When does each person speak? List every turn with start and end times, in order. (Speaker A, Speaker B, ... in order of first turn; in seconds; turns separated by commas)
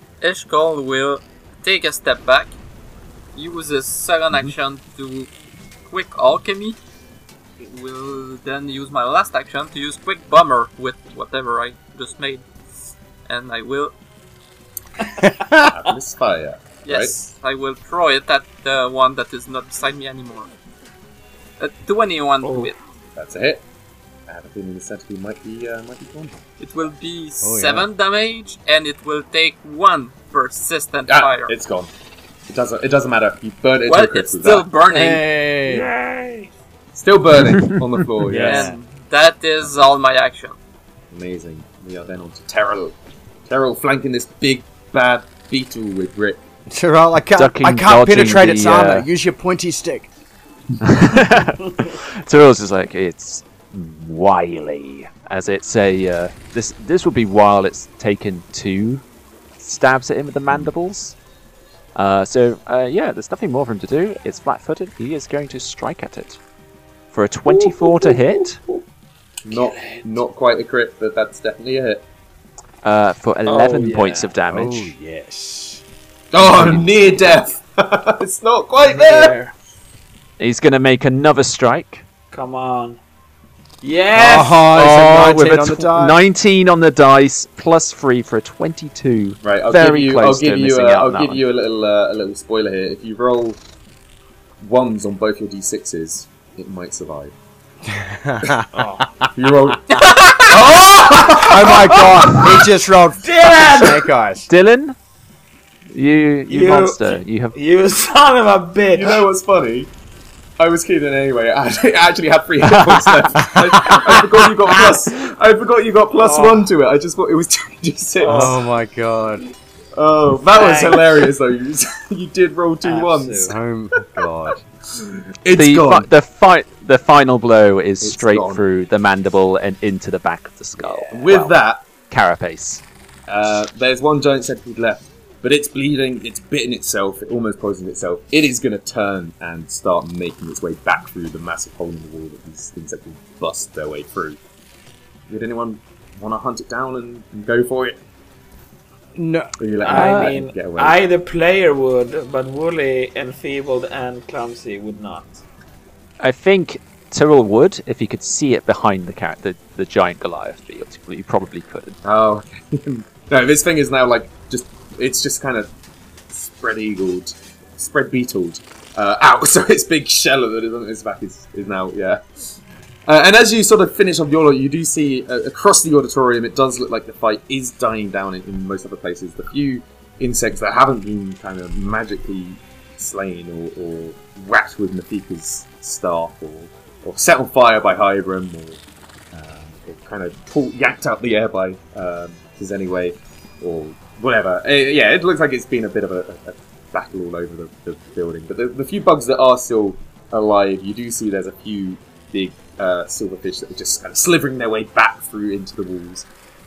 Speaker A: 0.2-2.5, Speaker A: 3.4-5.3, Speaker A: 5.9-6.8, Speaker A: 7.6-12.4, Speaker A: 13.3-13.9, Speaker B: 15.2-15.7, Speaker C: 15.6-17.2, Speaker A: 16.9-20.5, Speaker A: 21.6-22.8, Speaker D: 22.4-22.7, Speaker C: 23.1-23.6, Speaker C: 24.3-26.4, Speaker A: 26.6-31.5, Speaker B: 27.4-27.9, Speaker C: 31.1-31.9, Speaker C: 32.5-34.7, Speaker A: 33.9-35.2, Speaker B: 34.9-35.9, Speaker D: 35.7-36.5, Speaker C: 36.9-38.7, Speaker B: 38.2-38.8, Speaker A: 38.4-40.6, Speaker C: 41.1-43.0, Speaker C: 43.5-46.4, Speaker B: 46.7-50.1, Speaker E: 47.4-49.1, Speaker E: 50.8-59.0, Speaker E: 59.6-61.1, Speaker E: 62.0-66.4, Speaker E: 67.1-68.6, Speaker D: 69.5-70.0, Speaker C: 69.5-72.0, Speaker E: 72.8-74.9, Speaker D: 73.5-74.3, Speaker B: 74.5-75.8, Speaker C: 76.3-79.4, Speaker B: 76.4-76.9, Speaker D: 78.8-79.5, Speaker E: 80.4-82.0, Speaker D: 82.3-83.0, Speaker D: 83.8-84.9, Speaker B: 84.2-86.2, Speaker E: 84.2-91.4, Speaker C: 89.4-93.6, Speaker C: 94.6-97.3, Speaker B: 97.9-99.7, Speaker D: 98.7-99.0, Speaker C: 99.3-99.9, Speaker A: 99.9-100.6, Speaker C: 100.5-102.2, Speaker D: 100.5-102.7, Speaker B: 100.8-104.5, Speaker D: 103.2-104.1, Speaker E: 104.5-105.0, Speaker E: 105.9-107.6, Speaker D: 106.5-109.3, Speaker C: 108.9-109.9, Speaker C: 110.6-118.6, Speaker E: 112.7-113.1, Speaker B: 113.5-114.2, Speaker D: 116.2-116.7, Speaker D: 118.2-118.6, Speaker B: 118.2-119.5, Speaker C: 120.0-123.6, Speaker D: 120.5-121.3, Speaker D: 122.8-123.6, Speaker B: 123.5-124.6, Speaker C: 124.9-126.1, Speaker E: 125.5-131.6, Speaker C: 128.0-128.6, Speaker C: 130.8-131.8, Speaker E: 132.1-132.8, Speaker C: 133.3-144.4, Speaker C: 145.3-148.0, Speaker B: 149.2-149.6, Speaker C: 149.6-151.0, Speaker D: 149.8-155.4, Speaker E: 149.9-150.3, Speaker E: 156.2-162.0, Speaker C: 162.0-165.7, Speaker C: 166.3-188.8, Speaker C: 189.3-206.3